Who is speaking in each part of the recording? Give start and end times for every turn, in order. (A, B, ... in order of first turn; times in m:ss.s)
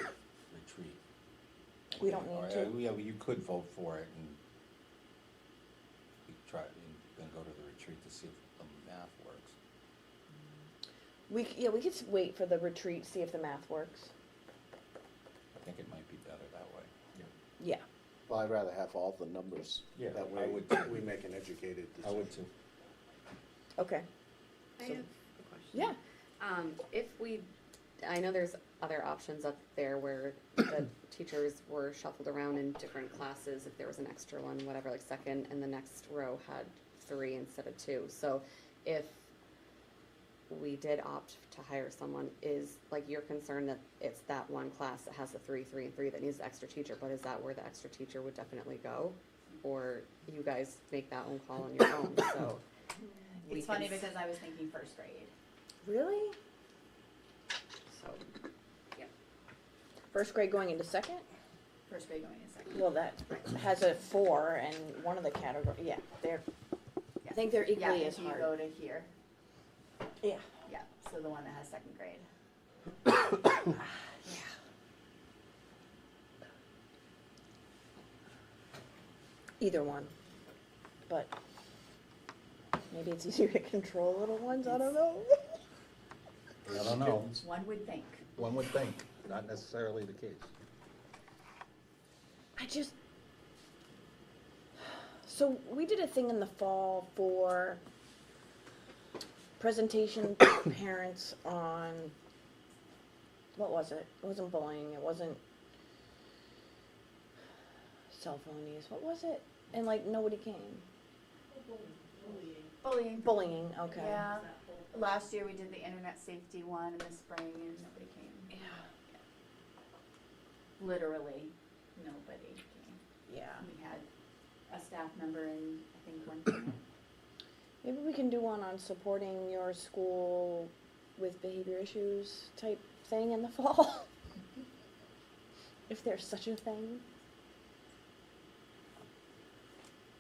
0:00.5-0:01.0 A
0:01.9-0:04.4 A
0:02.0-0:02.8 B
0:06.3-0:09.6 A
0:11.3-0:14.1 B
0:15.6-0:17.0 A
0:17.6-0:17.8 B
0:18.3-0:22.4 C
0:20.0-0:21.1 A
0:22.0-0:22.5 A
0:23.8-0:24.1 B
0:24.8-0:25.0 B
0:24.8-0:27.5 D
0:28.0-0:39.2 D
0:40.5-0:52.6 D
0:53.5-0:54.1 D
0:53.5-0:55.3 E
0:55.8-0:56.4 B
0:57.9-0:58.2 D
1:00.1-1:01.2 B
1:01.9-1:02.9 E
1:02.7-1:06.4 B
1:07.2-1:09.1 E
1:07.3-1:08.5 B
1:10.7-1:12.3 E
1:19.6-1:20.1 B
1:21.1-1:21.4 B
1:22.9-1:25.6 B
1:26.7-1:27.4 A
1:27.0-1:28.3 E
1:28.4-1:30.5 A
1:32.6-1:32.9 B
1:34.8-1:37.8 B
1:39.6-1:42.2 B
1:43.6-1:45.4 B
1:48.1-1:50.8 B
1:52.8-1:53.3 E
1:53.2-1:54.2 B
1:54.0-1:58.6 E
2:00.8-2:03.0 E
2:03.3-2:03.7 B
2:03.6-2:04.1 E
2:04.7-2:06.8 E
2:07.8-2:14.1 B
2:15.9-2:17.0 B